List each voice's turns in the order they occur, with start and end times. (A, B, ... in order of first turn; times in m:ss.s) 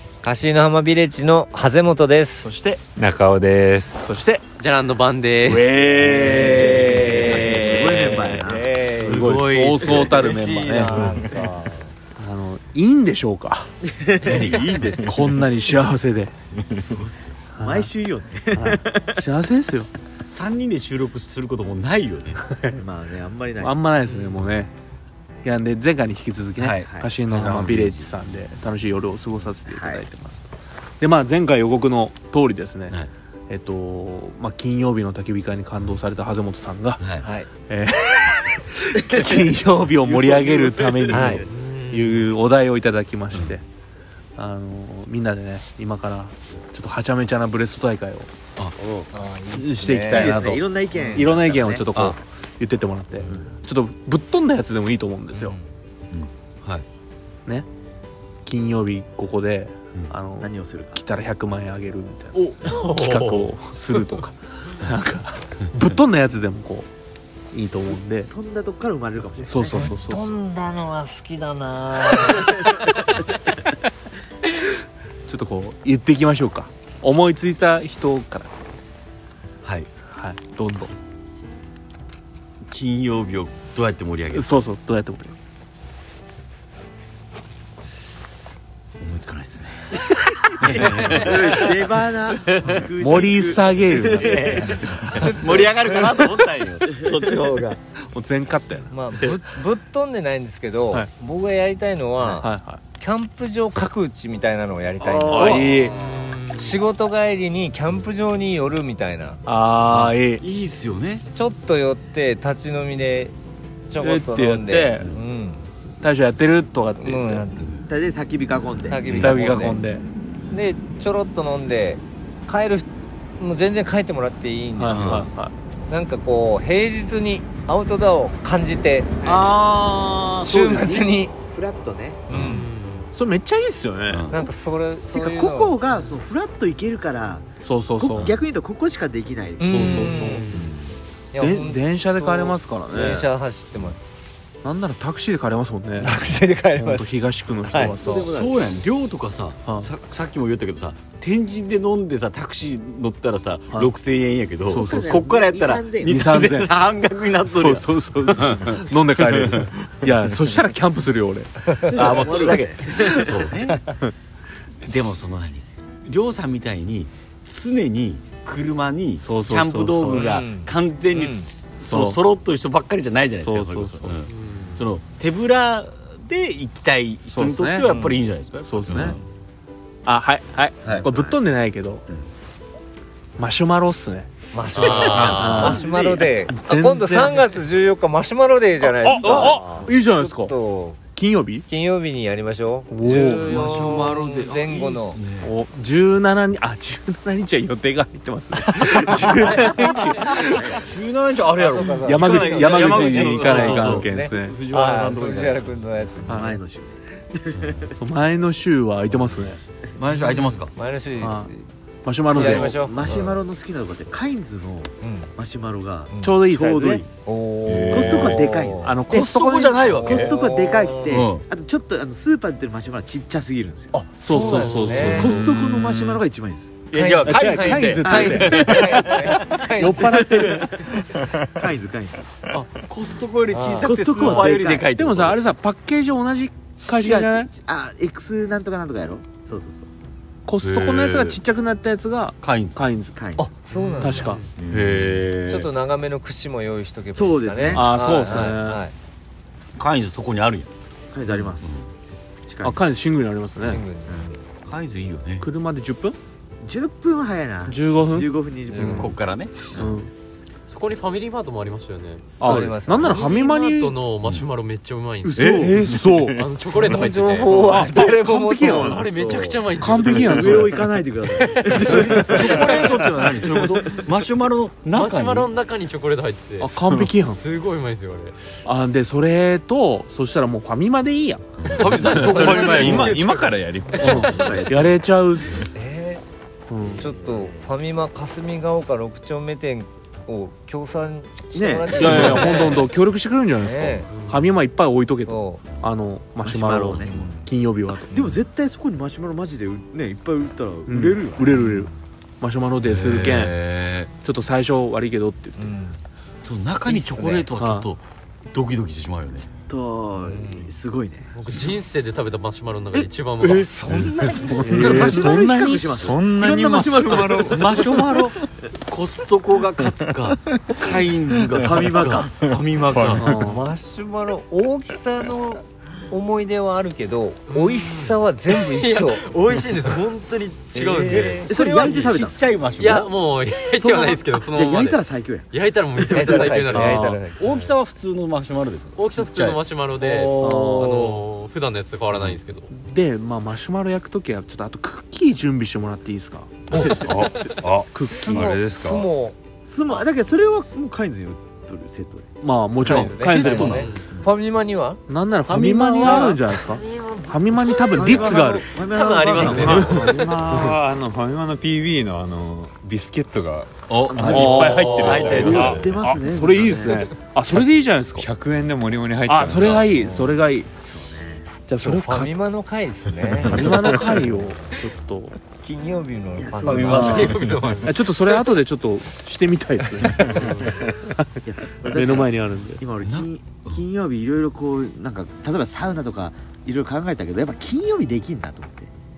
0:00.2-0:02.5 A
0:02.4-0:02.8 B
0:03.0-0:04.1 C
0:04.0-0:04.4 B
0:04.6-0:05.8 D
0:05.4-0:08.2 B
0:06.0-0:09.3 A
0:06.1-0:08.8 E
0:08.8-0:11.3 F
0:08.8-0:11.2 B
0:09.9-0:11.9 A
0:12.2-0:13.7 B
0:13.8-0:15.4 E
0:14.2-0:15.1 F
0:15.0-0:16.3 B
0:16.7-0:17.4 F
0:17.5-0:17.9 B
0:17.6-0:19.2 E
0:18.5-0:19.9 B
0:20.2-0:22.4 F
0:22.4-0:22.8 B
0:22.8-0:23.8 E
0:23.6-0:24.7 B
0:24.1-0:24.4 D
0:25.4-0:30.4 B
0:26.6-0:27.9 F
0:26.9-0:28.1 E
0:29.6-0:30.0 E
0:31.0-0:33.0 B
0:33.5-0:37.0 B
0:37.0-0:37.2 F
0:37.2-0:37.5 A
0:37.6-0:43.6 B
0:40.0-0:41.4 F
0:41.1-0:41.4 A
0:41.4-0:42.3 D
0:44.4-0:48.3 B
0:48.8-0:49.1 E
0:49.1-0:51.2 A
0:49.5-0:50.6 B
0:50.1-0:51.9 E
0:51.1-0:55.6 B
0:55.3-0:55.6 A
0:56.1-0:56.8 F
0:58.4-1:06.9 B
1:00.4-1:01.0 E
1:02.6-1:03.5 D
1:07.5-1:08.3 B
1:08.3-1:09.9 E
1:09.4-1:10.3 B
1:09.6-1:12.7 A
1:15.3-1:18.5 B
1:19.6-1:19.9 F
1:20.0-1:20.9 B
1:22.7-1:24.7 F
1:24.3-1:25.4 B
1:29.0-1:31.9 F
1:30.7-1:35.4 E
1:32.4-1:32.9 F
1:33.0-1:34.6 B
1:34.1-1:37.8 F
1:34.3-1:36.0 A
1:38.0-1:38.9 B
1:38.9-1:45.7 A
1:42.4-1:42.8 B
1:45.0-1:46.3 F
1:45.1-1:45.6 E
1:45.3-1:46.0 B
1:45.9-1:46.8 D
1:46.4-1:49.4 A
1:49.4-1:50.4 B
1:49.9-1:51.2 F
1:51.3-1:53.3 A
1:53.9-1:55.7 A
1:54.0-1:55.1 B
1:56.0-1:57.5 B
1:57.0-1:57.6 A
1:57.6-1:57.8 F
1:57.9-1:59.1 E
1:58.9-1:59.8 A
1:59.1-1:59.6 F
1:59.1-2:00.0 B
2:00.5-2:02.9 A
2:03.4-2:05.2 A
2:04.8-2:05.5 B
2:04.9-2:05.3 F
2:05.9-2:09.2 A
2:09.2-2:09.6 E
2:09.2-2:11.1 F
2:10.4-2:11.3 A
2:11.4-2:12.2 E
2:12.3-2:13.1 D
2:12.3-2:12.6 A
2:12.3-2:12.6 F
2:13.1-2:14.3 B
2:14.1-2:14.4 F
2:14.3-2:15.8 A
2:15.1-2:20.3 E
2:17.6-2:18.4 B
2:19.6-2:20.7 A
2:19.7-2:20.7 B
2:19.7-2:20.7 D
2:21.3-2:24.1 A
2:21.4-2:23.3 B
2:24.6-2:26.2 B
2:26.0-2:28.0 A
2:26.8-2:28.4 B
2:27.8-2:28.8 E
2:28.0-2:40.1 F
2:34.7-2:35.2 B
2:34.7-2:36.4 E
2:36.0-2:42.0 B
2:41.8-2:43.5 E
2:41.9-2:43.9 F
2:44.8-2:59.2 F
2:49.2-2:50.3 B
2:50.0-2:51.5 A
2:51.8-2:52.2 B
2:53.4-2:54.2 B
2:54.3-2:54.8 D
2:57.2-2:57.9 B
2:57.8-2:58.2 A
2:58.6-2:59.2 B
3:00.0-3:02.0 B
3:00.8-3:01.3 F
3:01.0-3:01.3 E
3:03.4-3:04.3 B
3:04.5-3:11.0 A
3:04.7-3:05.6 D
3:04.8-3:06.3 F
3:05.3-3:05.8 B
3:06.5-3:07.4 B
3:09.0-3:10.5 B
3:09.2-3:09.5 F
3:09.4-3:09.8 E
3:11.1-3:11.6 B
3:11.7-3:15.2 A
3:12.9-3:13.8 B
3:13.0-3:15.5 F
3:15.4-3:20.8 B
3:18.8-3:25.7 F
3:21.5-3:26.6 A
3:22.0-3:24.6 B
3:26.2-3:27.9 E
3:26.3-3:26.6 B
3:27.5-3:27.9 F
3:27.9-3:29.6 B
3:30.0-3:30.7 F
3:30.1-3:30.5 D
3:30.7-3:31.6 A
3:31.2-3:31.5 B
3:32.0-3:32.7 B
3:32.3-3:33.4 A
3:32.4-3:37.0 E
3:32.4-3:33.3 F
3:35.0-3:35.3 A
3:36.1-3:36.4 A
3:36.2-3:37.0 B
3:37.2-3:38.9 A
3:37.7-3:38.4 C
3:37.7-3:38.3 F
3:37.9-3:39.0 E
3:38.8-3:40.0 B
3:39.0-3:40.4 F
3:39.8-3:41.3 A
3:40.0-3:46.8 E
3:41.1-3:41.4 F
3:44.0-3:45.4 A
3:44.1-3:45.4 B
3:44.3-3:45.3 D
3:45.2-3:46.2 C
3:46.9-3:49.6 F
3:46.9-3:50.5 A
3:47.2-3:49.1 B
3:48.0-3:49.2 E
3:49.6-3:50.8 B
3:50.0-3:50.9 E
3:51.4-3:52.3 E
3:52.5-3:55.4 F
3:53.5-3:54.5 A
3:53.8-3:54.9 E
3:54.9-3:57.5 B
3:56.9-3:59.9 E
4:00.4-4:03.1 B
4:00.6-4:01.4 F
4:02.4-4:02.9 F
4:03.1-4:03.5 E
4:03.4-4:04.4 A
4:03.7-4:04.5 D
4:04.0-4:04.4 B
4:04.6-4:05.3 C
4:04.6-4:05.7 F
4:05.5-4:08.9 A
4:07.1-4:07.9 E
4:07.7-4:08.8 B
4:09.8-4:10.7 F
4:11.1-4:11.9 E
4:11.3-4:11.9 F
4:12.5-4:12.8 E
4:12.6-4:13.8 B
4:13.6-4:14.4 A
4:14.1-4:14.3 E
4:14.6-4:15.5 F
4:15.4-4:16.2 B
4:16.6-4:19.1 E
4:17.7-4:19.1 B
4:18.7-4:19.9 F
4:19.7-4:20.1 B
4:20.7-4:22.3 D
4:22.3-4:22.8 E
4:22.4-4:23.3 A
4:22.4-4:24.0 B
4:22.9-4:27.7 D
4:24.2-4:24.5 F
4:25.2-4:25.9 E
4:25.3-4:26.0 F
4:25.4-4:30.9 B
4:27.3-4:29.0 A
4:28.6-4:29.1 C
4:28.7-4:30.8 D
4:29.9-4:32.8 E
4:31.7-4:32.7 A
4:31.8-4:32.3 B
4:32.1-4:32.8 D
4:32.2-4:35.5 F
4:34.9-4:38.4 D
4:36.6-4:37.4 B
4:36.8-4:37.1 C
4:38.6-4:43.2 B
4:41.6-4:43.2 F
4:41.8-4:44.6 D
4:42.1-4:44.7 C
4:43.9-4:45.7 B
4:44.1-4:44.9 E
4:45.6-4:46.2 A
4:46.7-4:47.1 B
4:46.9-4:52.9 A
4:51.5-4:52.4 E
4:52.0-4:58.1 B
4:53.6-4:54.1 A
4:55.2-4:55.6 A
4:56.4-4:57.2 E
4:57.0-4:57.5 A
4:58.0-5:01.6 E
4:58.1-4:58.4 A
5:00.9-5:03.6 B
5:01.5-5:01.9 A
5:02.8-5:04.1 F
5:04.2-5:05.6 B
5:05.6-5:06.0 A
5:06.4-5:09.5 F
5:06.8-5:07.5 A
5:07.6-5:07.8 B
5:09.4-5:11.4 E
5:10.2-5:10.7 A
5:11.3-5:13.7 D
5:13.4-5:15.2 A
5:14.0-5:15.2 C
5:14.6-5:18.2 E
5:14.6-5:16.0 B
5:15.9-5:18.0 C
5:17.2-5:23.2 F
5:21.4-5:22.4 E
5:22.9-5:23.2 C
5:23.2-5:23.7 B
5:23.2-5:29.3 A
5:27.5-5:31.5 D
5:29.5-5:33.1 F
5:30.7-5:32.1 A
5:31.4-5:32.4 E
5:32.8-5:37.7 D
5:33.8-5:35.5 E
5:36.0-5:36.5 E
5:36.1-5:37.4 A
5:36.7-5:37.2 B
5:37.4-5:40.9 F
5:39.0-5:42.7 D
5:40.3-5:41.2 B
5:42.7-5:47.1 B
5:46.7-5:47.9 F
5:46.7-5:47.2 A
5:46.9-5:49.1 C
5:47.9-5:48.6 B
5:48.0-5:49.4 A
5:49.6-5:52.3 E
5:52.4-5:53.9 B
5:52.8-5:55.0 A
5:52.8-5:54.3 F
5:53.7-5:54.0 D
5:55.1-5:58.7 B
5:55.5-5:56.4 F
5:56.0-5:56.4 E
5:56.8-5:57.2 D
5:57.8-6:00.1 E
5:58.7-6:00.2 D
5:59.4-6:00.8 B
5:59.4-5:59.9 F
5:59.6-6:05.9 C
6:03.9-6:05.9 F
6:04.1-6:07.0 E
6:04.2-6:08.3 B
6:04.3-6:05.9 D
6:08.2-6:10.0 C
6:09.3-6:10.7 B
6:09.9-6:10.3 A
6:10.8-6:11.4 E
6:11.7-6:12.3 B
6:11.7-6:13.9 A
6:13.4-6:15.4 B
6:15.6-6:17.8 A
6:16.4-6:17.4 E
6:16.7-6:17.8 F
6:16.7-6:17.9 D
6:16.8-6:22.8 B
6:20.4-6:20.7 E
6:21.4-6:28.9 E
6:23.0-6:23.8 F